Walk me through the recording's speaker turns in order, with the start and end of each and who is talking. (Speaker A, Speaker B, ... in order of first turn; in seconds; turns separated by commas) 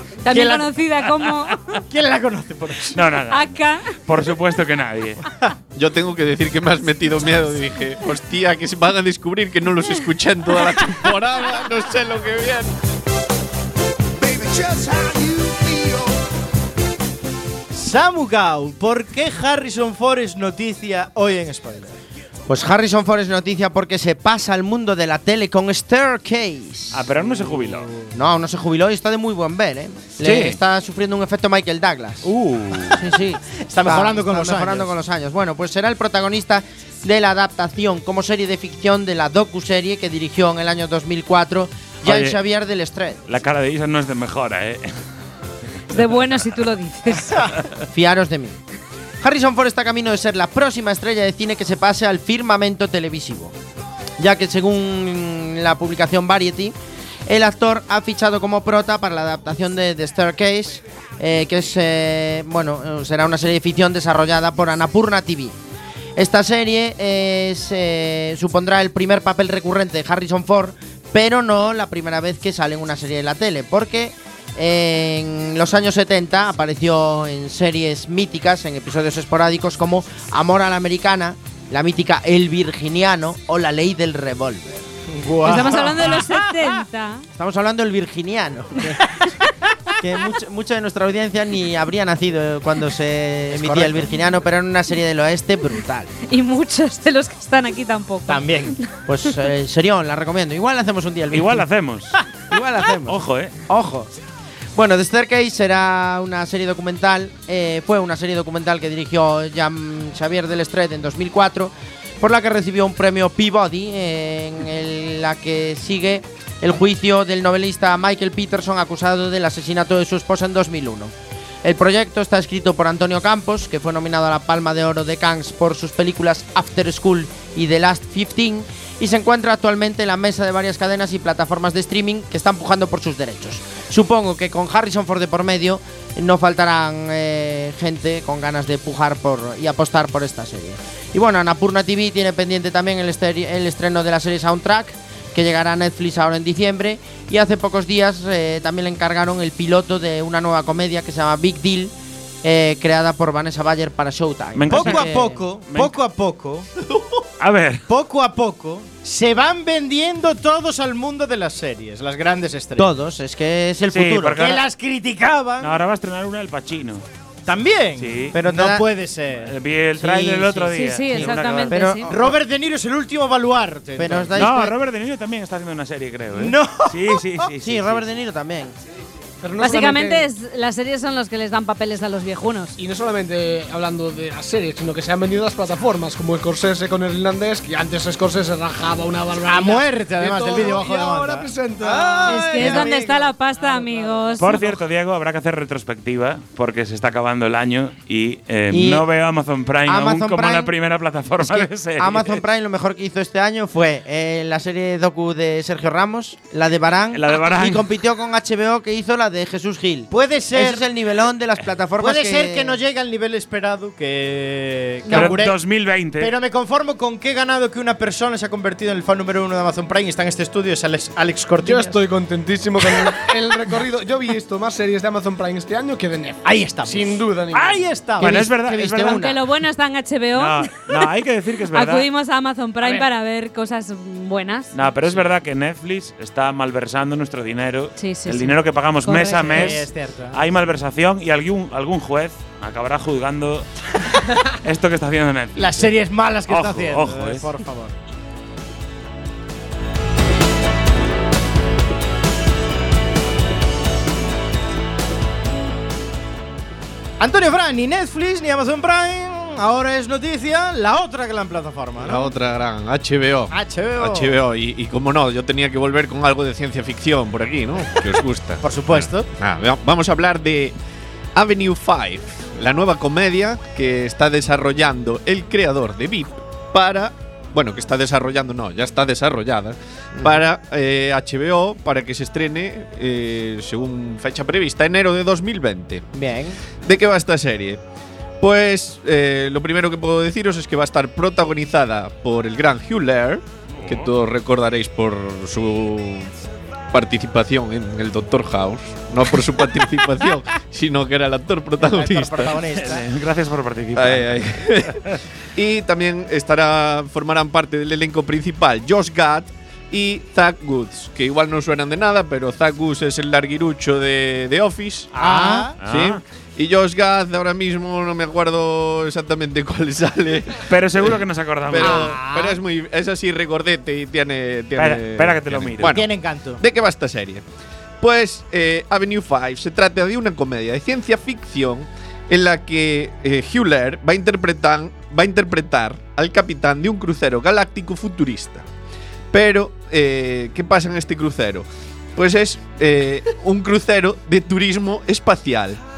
Speaker A: 0.2-1.6, Speaker B: 0.3-0.7, Speaker B: 1.8-3.0, Speaker C: 2.9-5.2, Speaker A: 3.3-4.0, Speaker D: 5.8-12.7, Speaker B: 14.6-15.6, Speaker B: 17.7-22.0, Speaker E: 22.5-27.1, Speaker C: 26.9-27.9, Speaker E: 28.1-32.3, Speaker C: 30.2-30.6, Speaker C: 32.2-33.0, Speaker E: 32.9-43.2, Speaker B: 33.7-34.9, Speaker C: 42.0-42.4, Speaker C: 43.3-44.9, Speaker A: 45.9-47.5, Speaker E: 47.9-48.6, Speaker E: 49.2-53.5, Speaker E: 54.2-56.7, Speaker E: 57.3-65.6, Speaker E: 66.2-84.8, Speaker B: 85.1-86.6, Speaker A: 85.4-87.2, Speaker E: 87.3-89.0, Speaker E: 90.0-96.1, Speaker B: 93.5-94.1, Speaker A: 96.3-98.4, Speaker B: 98.3-98.8, Speaker E: 99.0-101.7, Speaker C: 101.3-102.2, Speaker E: 102.5-104.1, Speaker C: 103.0-103.5, Speaker E: 104.7-121.1, Speaker E: 121.6-155.4, Speaker C: 154.6-155.9, Speaker B: 154.7-156.7, Speaker D: 156.8-157.2, Speaker C: 157.4-157.8, Speaker B: 157.9-162.9, Speaker E: 162.8-164.5, Speaker C: 163.9-164.6, Speaker B: 164.4-165.8, Speaker C: 165.6-167.0, Speaker B: 167.4-169.5, Speaker C: 168.0-168.3, Speaker E: 168.3-168.8, Speaker C: 169.5-171.8, Speaker E: 170.0-172.3, Speaker A: 170.7-172.1, Speaker B: 172.1-174.3, Speaker E: 173.9-174.7, Speaker C: 174.3-178.0, Speaker B: 176.3-177.2, Speaker E: 177.6-178.7, Speaker F: 179.4-180.3, Speaker A: 179.6-182.7, Speaker F: 182.8-194.8, Speaker B: 189.4-192.9, Speaker A: 192.2-194.6, Speaker C: 194.4-202.4, Speaker E: 198.7-199.1, Speaker E: 199.9-200.7, Speaker E: 201.4-212.8, Speaker C: 207.1-207.9, Speaker B: 210.1-210.8, Speaker B: 212.0-215.6, Speaker C: 215.1-216.3, Speaker B: 216.2-222.0, Speaker F: 221.6-228.0, Speaker B: 223.0-223.3, Speaker B: 226.4-228.5, Speaker C: 228.2-229.2, Speaker E: 228.2-229.4, Speaker A: 229.1-231.0, Speaker C: 230.3-232.1, Speaker A: 231.7-234.7, Speaker C: 234.7-243.7, Speaker A: 238.0-239.8, Speaker B: 239.5-240.4, Speaker C: 244.6-247.4, Speaker B: 245.6-247.9, Speaker B: 257.2-262.3, Speaker D: 262.0-270.7, Speaker B: 263.5-264.4, Speaker B: 268.6-269.3, Speaker D: 271.3-286.1, Speaker E: 280.2-280.4, Speaker E: 286.1-286.6, Speaker D: 286.8-287.8, Speaker D: 288.4-296.3, Speaker D: 296.9-302.5, Speaker B: 301.8-303.1, Speaker C: 302.6-305.2, Speaker D: 303.9-305.0, Speaker D: 305.5-315.2, Speaker B: 315.1-315.7, Speaker C: 315.2-316.2, Speaker D: 315.8-321.2, Speaker C: 320.7-322.2, Speaker D: 321.7-326.1, Speaker B: 321.8-322.5, Speaker C: 324.8-326.0, Speaker B: 325.9-326.6, Speaker D: 326.6-327.4, Speaker D: 328.0-338.6, Speaker D: 339.3-345.8